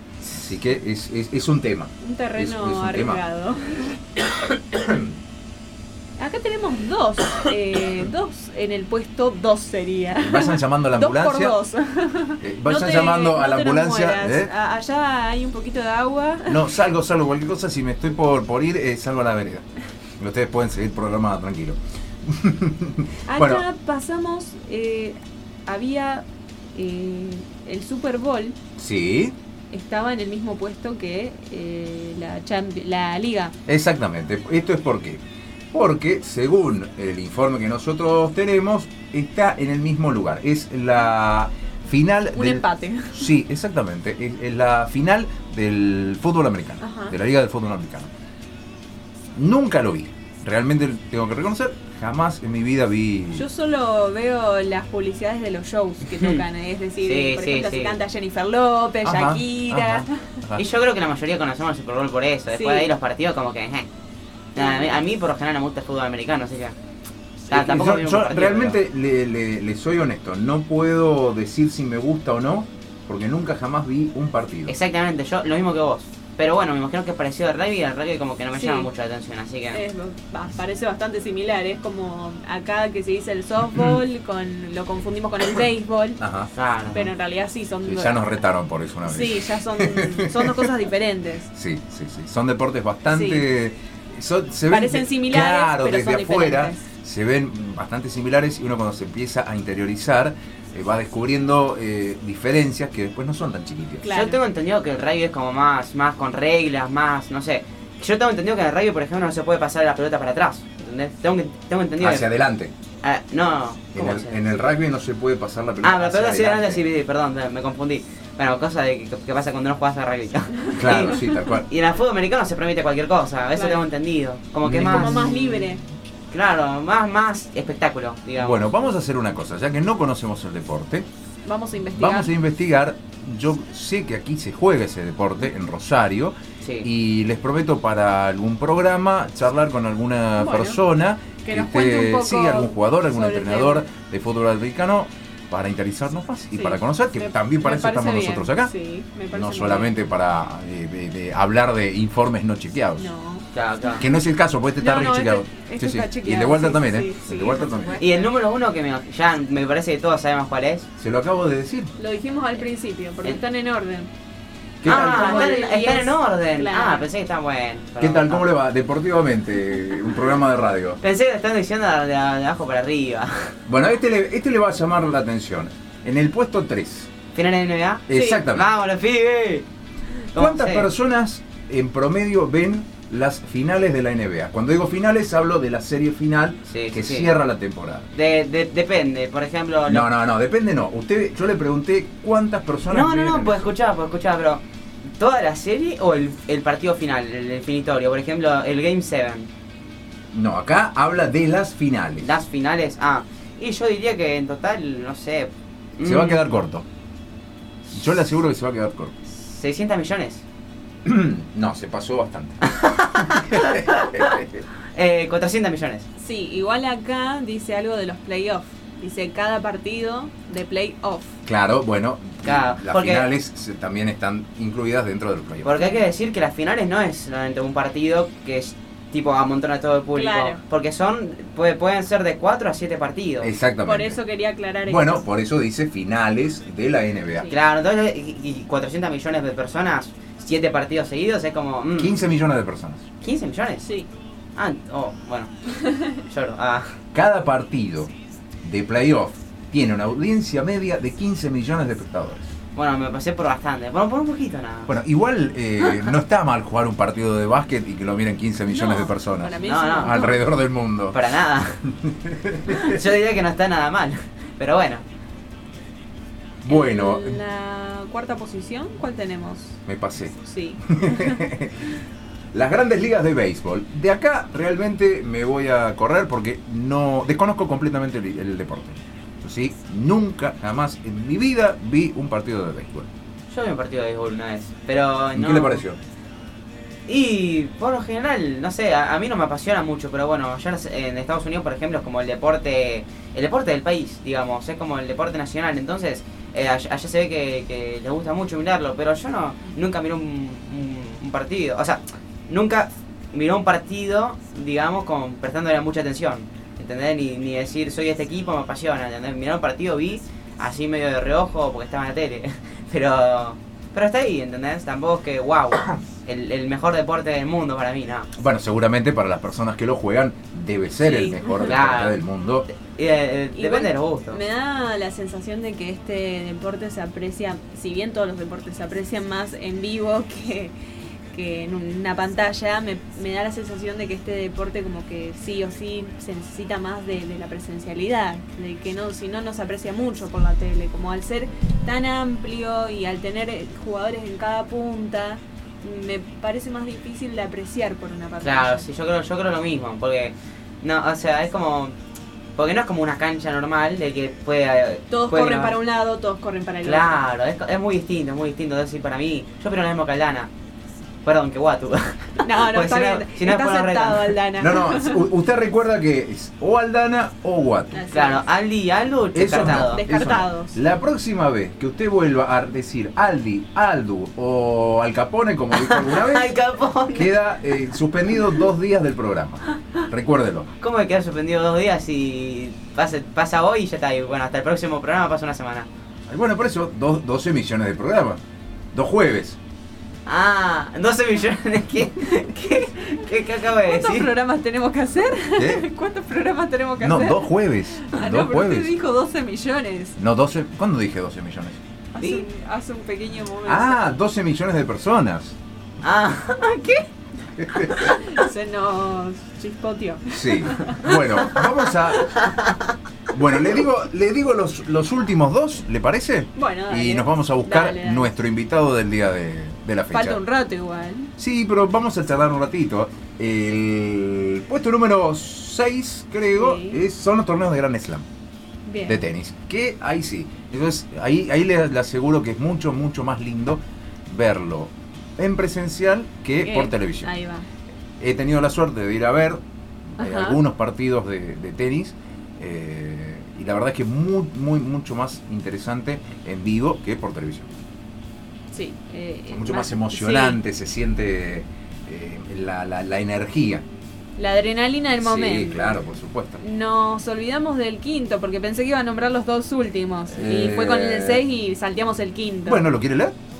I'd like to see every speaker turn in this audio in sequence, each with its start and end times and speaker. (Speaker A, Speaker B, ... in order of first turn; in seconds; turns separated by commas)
Speaker A: 0.2-3.2, Speaker B: 2.0-4.0, Speaker A: 4.7-5.1, Speaker B: 6.2-16.6, Speaker A: 10.2-11.6, Speaker A: 12.4-14.5, Speaker A: 16.5-19.6, Speaker A: 20.2-23.6, Speaker B: 23.3-28.6, Speaker A: 28.8-29.4, Speaker B: 29.7-33.5, Speaker A: 33.7-48.1, Speaker B: 42.3-43.3, Speaker B: 46.8-47.1, Speaker A: 49.3-53.5, Speaker B: 53.3-60.1, Speaker C: 56.1-56.4, Speaker C: 57.0-58.0, Speaker A: 59.0-60.6, Speaker C: 60.5-63.9, Speaker B: 62.5-62.9, Speaker C: 64.5-66.7, Speaker B: 64.6-65.0, Speaker C: 67.5-68.8, Speaker A: 67.5-74.7, Speaker C: 74.7-79.8, Speaker B: 78.5-78.9, Speaker B: 79.7-86.2, Speaker A: 83.7-84.0, Speaker A: 86.2-87.1, Speaker C: 86.5-87.1, Speaker B: 86.9-88.2, Speaker A: 87.8-90.6, Speaker B: 89.0-91.5, Speaker A: 91.5-104.1, Speaker B: 93.1-93.4, Speaker B: 94.7-96.8, Speaker B: 104.0-104.4, Speaker C: 104.1-112.3, Speaker A: 112.0-112.7, Speaker C: 113.0-114.8, Speaker A: 113.9-116.8, Speaker C: 115.8-125.7, Speaker A: 120.7-121.7, Speaker B: 123.5-123.9, Speaker A: 124.6-125.3, Speaker B: 124.8-125.8, Speaker C: 126.3-128.7, Speaker A: 128.4-131.1, Speaker B: 131.4-132.3, Speaker A: 131.9-148.7, Speaker C: 136.6-136.9, Speaker B: 140.4-140.8, Speaker B: 141.4-143.8, Speaker B: 146.5-150.0, Speaker A: 149.3-153.1, Speaker B: 153.0-153.5, Speaker C: 153.5-154.0, Speaker A: 154.0-158.0, Speaker B: 154.8-158.3, Speaker C: 158.0-160.8, Speaker A: 161.0-161.9, Speaker B: 162.0-164.1, Speaker A: 164.8-165.6, Speaker C: 164.8-168.5, Speaker B: 164.9-167.1, Speaker A: 168.0-171.0, Speaker C: 171.0-173.5, Speaker A: 173.7-177.1, Speaker C: 177.3-179.7, Speaker A: 178.1-178.7, Speaker C: 180.3-180.9, Speaker A: 180.3-188.1, Speaker C: 186.7-187.4, Speaker C: 188.1-190.1, Speaker A: 189.8-193.7, Speaker C: 192.9-194.6, Speaker C: 195.2-199.5, Speaker A: 200.3-202.3, Speaker C: 202.2-206.5, Speaker A: 206.0-206.8, Speaker A: 207.9-209.1, Speaker C: 209.3-210.4, Speaker A: 211.0-212.7, Speaker C: 212.6-214.4, Speaker A: 213.4-214.6, Speaker C: 214.9-216.0, Speaker B: 216.2-221.3, Speaker A: 221.4-225.8, Speaker C: 222.4-223.3, Speaker C: 225.6-233.5, Speaker B: 230.1-230.6, Speaker A: 233.4-234.2, Speaker B: 233.8-235.2, Speaker A: 234.8-237.5, Speaker C: 237.5-242.2, Speaker A: 242.0-243.0, Speaker C: 243.2-243.9, Speaker B: 243.8-244.1, Speaker C: 244.6-245.5, Speaker C: 246.2-246.9, Speaker A: 247.1-248.1, Speaker A: 248.6-252.5, Speaker C: 252.7-254.9, Speaker A: 254.9-261.2, Speaker B: 258.7-260.4, Speaker C: 259.6-260.3, Speaker C: 261.1-261.8, Speaker A: 261.9-263.0, Speaker C: 262.7-265.0, Speaker A: 266.6-267.4, Speaker B: 266.7-269.8, Speaker A: 269.8-271.9, Speaker B: 270.4-271.5, Speaker A: 272.5-283.1, Speaker C: 283.5-285.8, Speaker A: 285.3-286.0, Speaker C: 287.1-318.3, Speaker A: 318.3-322.7, Speaker B: 321.0-321.8, Speaker C: 321.1-322.2, Speaker C: 322.7-324.4, Speaker B: 323.5-330.7, Speaker B: 331.3-348.9, Speaker C: 348.4-351.9, Speaker C: 352.6-355.8, Speaker B: 355.1-357.2, Speaker C: 356.8-360.5, Speaker C: 361.2-364.4, Speaker B: 362.4-365.2, Speaker A: 364.6-368.1, Speaker B: 367.9-368.4, Speaker C: 368.1-370.0, Speaker A: 369.3-376.6, Speaker B: 369.6-370.8, Speaker C: 375.7-377.3, Speaker A: 377.1-380.7, Speaker C: 380.8-385.9, Speaker A: 386.3-388.4, Speaker A: 388.9-389.6, Speaker C: 390.2-394.3, Speaker B: 392.2-400.1, Speaker A: 395.6-395.9, Speaker A: 397.0-398.9, Speaker A: 400.2-401.8, Speaker B: 402.1-404.1, Speaker C: 402.2-402.4, Speaker A: 403.6-405.6, Speaker C: 406.0-407.0, Speaker A: 407.6-408.1, Speaker B: 407.8-411.5, Speaker A: 410.3-412.4, Speaker A: 413.3-420.4, Speaker B: 416.5-418.3, Speaker B: 420.1-421.3, Speaker A: 421.4-428.2, Speaker B: 426.5-427.0, Speaker B: 428.9-429.3, Speaker A: 429.0-437.3, Speaker B: 436.6-437.7, Speaker A: 438.2-439.6, Speaker A: 440.2-447.7, Speaker B: 440.2-440.6, Speaker B: 448.7-450.6, Speaker A: 449.5-453.8, Speaker B: 454.4-456.0, Speaker A: 455.2-456.6, Speaker B: 456.6-462.8, Speaker A: 460.3-461.4, Speaker A: 462.6-463.4